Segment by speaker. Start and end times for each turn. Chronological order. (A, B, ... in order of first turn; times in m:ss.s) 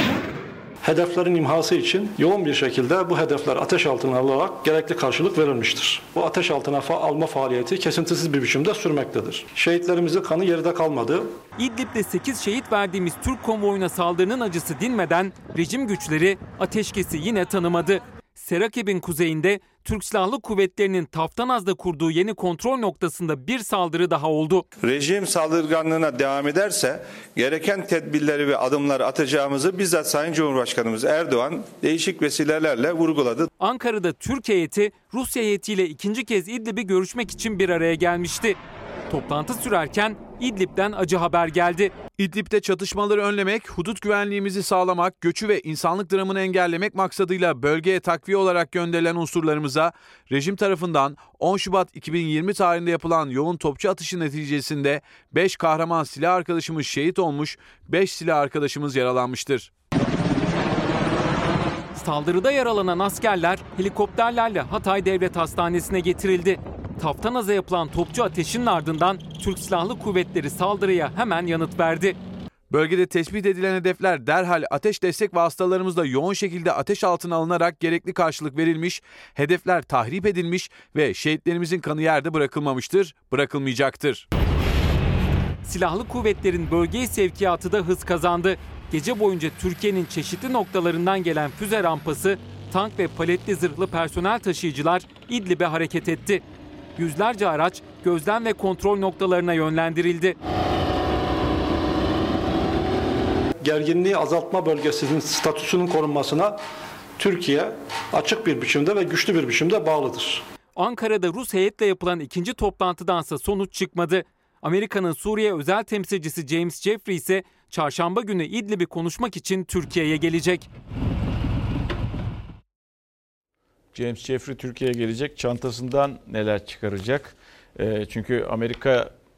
0:00.8-0:11.4 A
0:11.6-0:24.6 B
0:24.8-0:33.5 C
0:33.6-0:41.9 B
0:42.2-0:59.7 D
1:01.9-1:12.2 B
1:12.7-1:24.3 D
1:25.6-1:36.4 B
1:37.0-1:40.4 B
1:43.6-1:46.6 A
1:47.2-1:50.4 A
1:50.8-2:00.7 B
2:03.9-2:09.1 E